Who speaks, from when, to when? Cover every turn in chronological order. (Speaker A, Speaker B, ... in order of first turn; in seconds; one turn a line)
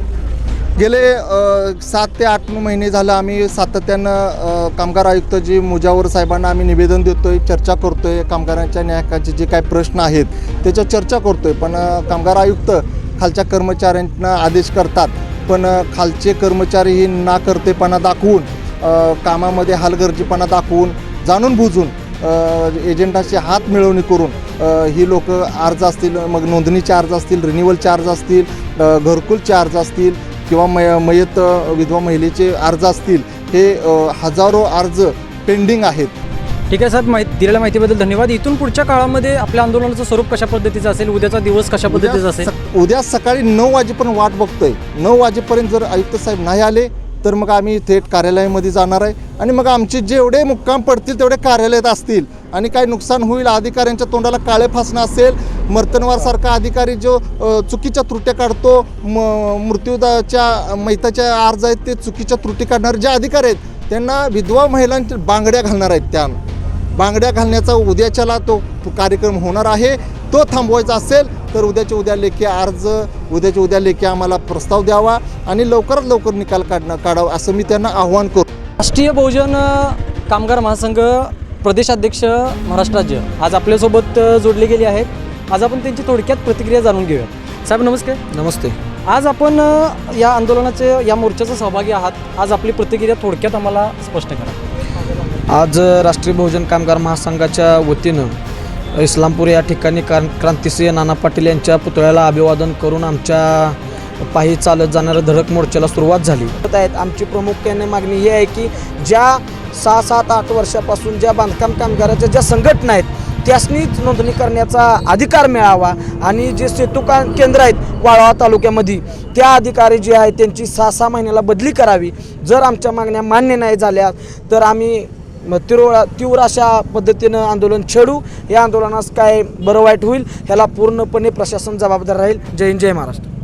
Speaker A: 0.8-36.1
Speaker B: 36.7-42.5
Speaker A: 41.9-66.4
Speaker A: 67.0-78.5
Speaker B: 78.8-88.2
Speaker C: 88.3-88.8
Speaker B: 89.1-94.6
Speaker C: 95.5-98.3
Speaker C: 99.0-133.3